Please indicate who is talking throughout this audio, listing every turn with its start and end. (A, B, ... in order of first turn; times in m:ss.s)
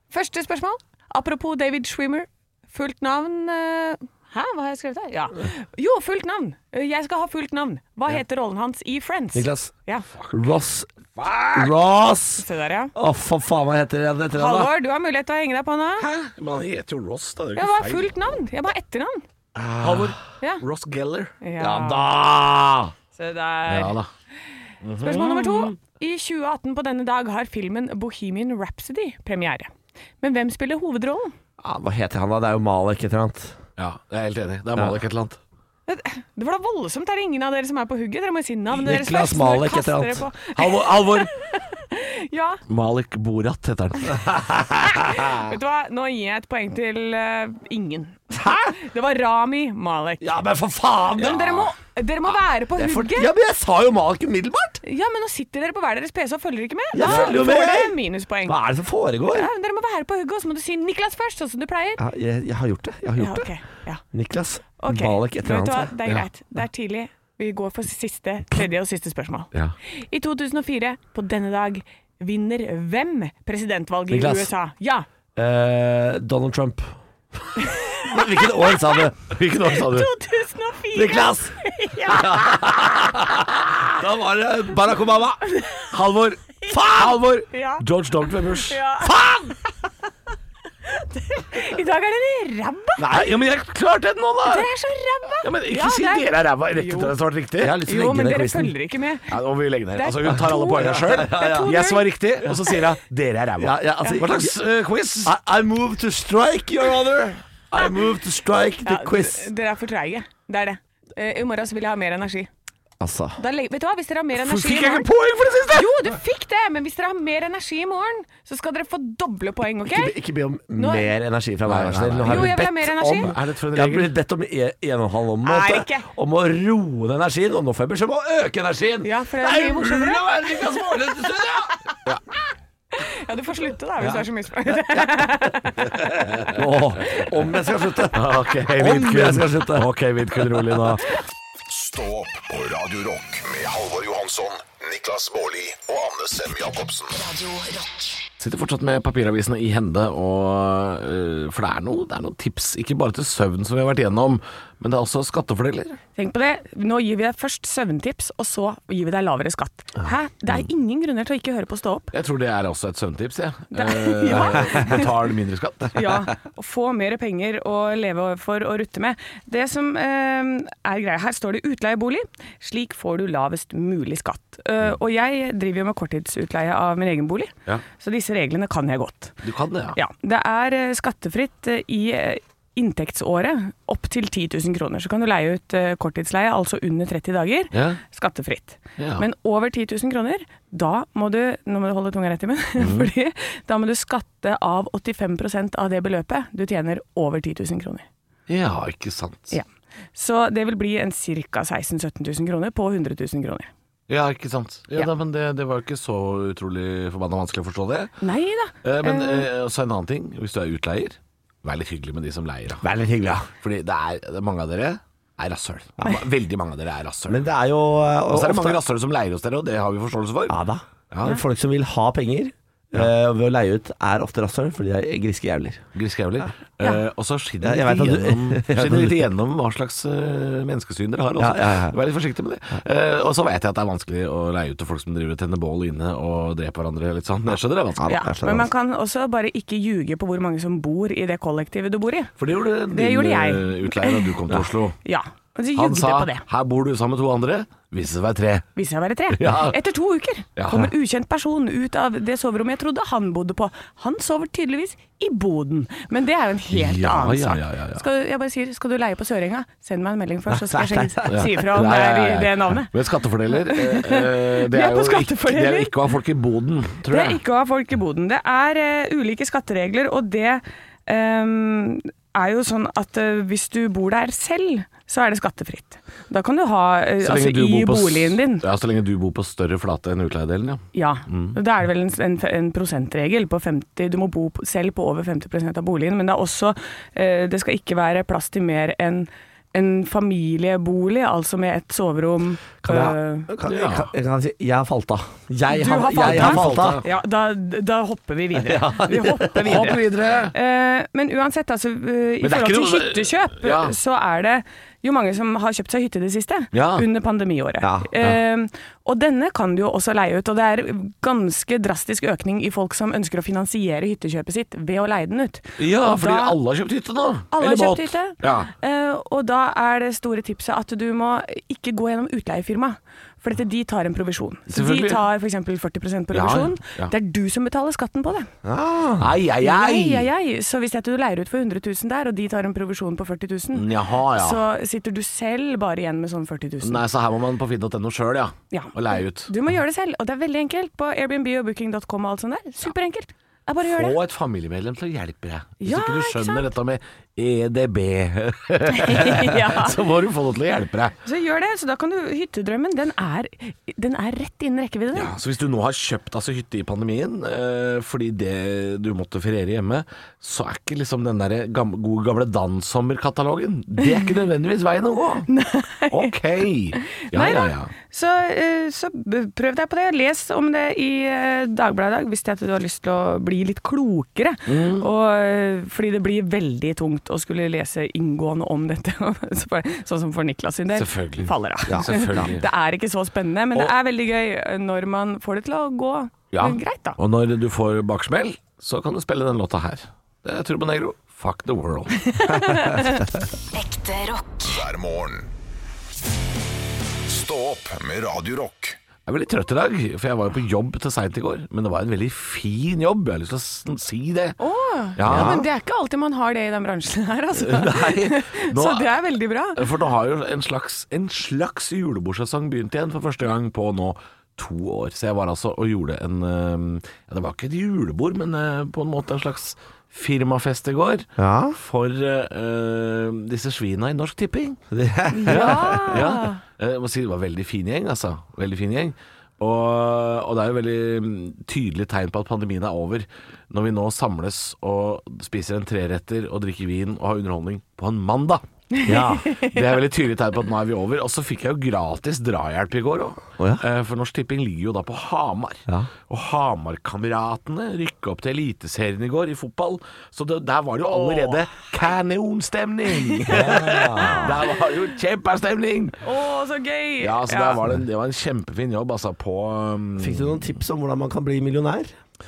0:00.1-0:10.0 A
0:09.3-0:09.7 B
0:10.2-0:10.4 C
0:10.3-0:10.9 B
0:11.1-0:11.7 C
0:11.5-0:14.7 B
0:12.4-0:12.9 A
0:14.3-0:16.1 A
0:16.0-0:18.1 C
0:17.6-0:19.2 A
0:19.5-0:20.2 B
0:19.8-0:21.3 C
0:21.4-0:22.1 A
0:21.6-0:22.9 B
0:23.1-0:24.0 A
0:23.7-0:24.1 C
0:24.8-0:25.7 C
0:25.0-0:31.3 A
0:31.6-0:33.6 B
0:33.8-0:35.4 C
0:35.9-0:42.6 A
0:38.7-0:40.2 B
0:40.5-0:41.3 C
0:42.7-0:44.4 C
0:44.3-0:45.0 B
0:44.9-0:50.3 A
0:48.4-0:48.7 B
0:50.2-0:51.4 B
0:51.2-0:53.3 A
0:51.2-0:51.7 C
0:52.8-0:54.8 B
0:54.8-0:58.6 A
0:56.9-0:59.5 B
0:57.0-0:57.3 C
0:59.3-1:02.0 A
1:02.0-1:03.5 B
1:03.2-1:04.0 A
1:04.1-1:05.9 B
1:04.8-1:15.0 A
1:14.1-1:14.5 B
1:15.4-1:19.3 B
1:17.6-1:18.2 A
1:19.3-1:20.1 C
1:19.7-1:22.9 A
1:20.9-1:25.4 B
1:25.9-1:28.8 C
1:26.7-1:27.3 B
1:27.5-1:27.8 A
1:28.7-1:29.1 A
1:29.0-1:29.6 B
1:30.8-1:33.0 A
1:33.0-1:34.7 C
1:33.0-1:33.3 B
1:34.4-1:37.1 A
1:35.4-1:37.8 C
1:37.6-1:38.7 B
1:37.8-1:39.3 A
1:39.3-1:45.3 C
1:39.9-1:42.5 A
1:40.7-1:41.7 B
1:43.6-1:44.6 B
1:45.2-1:49.5 B
1:48.8-1:52.5 A
1:53.0-1:53.4 B
1:53.4-1:55.1 A
1:54.4-1:56.1 C
1:55.7-2:00.2 A
1:59.8-2:11.8 B
2:00.8-2:01.1 A
2:01.6-2:04.1 C
2:02.2-2:03.3 A
2:05.4-2:06.0 A
2:09.0-2:10.2 A
2:13.0-2:15.8 A
2:14.9-2:15.2 B
2:15.7-2:21.0 B
2:18.1-2:21.0 C
2:21.7-2:27.1 D
2:27.1-2:28.2 E
2:28.4-2:36.0 C
2:36.2-2:42.1 A
2:42.1-2:46.1 C
2:43.7-2:45.1 A
2:45.9-2:59.4 A
2:59.4-3:00.0 C
2:59.9-3:18.0 A
3:07.7-3:08.0 C
3:09.0-3:09.2 C
3:12.8-3:13.1 C
3:18.5-3:19.6 C
3:19.5-3:23.7 A
3:24.1-3:28.1 C
3:28.2-3:29.5 A
3:28.8-3:37.5 C
3:32.8-3:33.5 B
3:37.3-3:38.8 B
3:38.3-3:40.6 C
3:40.5-3:45.8 B
3:41.1-3:41.4 C
3:45.9-3:58.2 C
3:47.6-3:49.2 B
3:51.4-3:52.0 B
3:58.0-3:58.7 B
3:58.1-4:02.3 A
4:02.4-4:05.0 C
4:02.9-4:04.3 A
4:05.0-4:06.4 A
4:05.7-4:08.7 C
4:08.8-4:22.9 A
4:09.3-4:09.8 C
4:10.6-4:10.9 C
4:16.7-4:18.0 C
4:20.5-4:21.4 B
4:21.3-4:27.4 C
4:23.5-4:25.9 A
4:27.1-4:38.6 A
4:37.2-4:41.6 C
4:40.9-4:53.5 A
4:52.8-4:57.0 B
4:53.6-4:54.1 C
4:55.7-5:16.6 A
4:56.2-4:57.1 C
4:58.6-4:59.9 B
4:59.6-5:00.5 C
5:02.4-5:03.9 C
5:06.7-5:07.0 C
5:07.8-5:08.1 B
5:15.8-5:18.7 C
5:17.5-5:28.5 A
5:24.7-5:25.2 C
5:26.3-5:27.1 C
5:28.6-5:29.3 B
5:29.2-5:30.3 C
5:29.6-5:37.0 A
5:33.7-5:34.6 C
5:36.8-5:39.5 C
5:38.7-5:44.2 A
5:43.8-5:51.2 C
5:45.8-5:46.7 A
5:48.9-5:50.0 A
5:51.2-5:55.3 A
5:55.1-6:05.5 C
6:05.5-6:06.3 A
6:06.1-6:07.9 C
6:07.1-6:27.2 A
6:14.7-6:15.0 C
6:20.9-6:22.7 C
6:21.9-6:22.5 B
6:26.5-6:32.3 C
6:32.3-6:33.2 A
6:33.7-6:34.8 E
6:34.6-6:35.5 D
6:37.3-6:39.0 D
6:39.3-6:44.6 C
6:44.6-6:49.8 A
6:45.2-6:45.6 C
6:45.2-6:45.7 B
6:47.6-6:49.1 C
6:49.8-7:04.8 C
7:01.4-7:01.8 B
7:04.9-7:06.2 B
7:05.3-7:06.6 A
7:05.5-7:18.6 C
7:18.9-7:19.8 A
7:19.0-7:19.5 B
7:19.6-7:36.2 C
7:23.6-7:23.8 B
7:31.0-7:31.6 A
7:33.5-7:34.6 B
7:33.5-7:34.5 A
7:36.2-7:37.8 A
7:37.2-7:40.6 C
7:40.2-7:42.1 B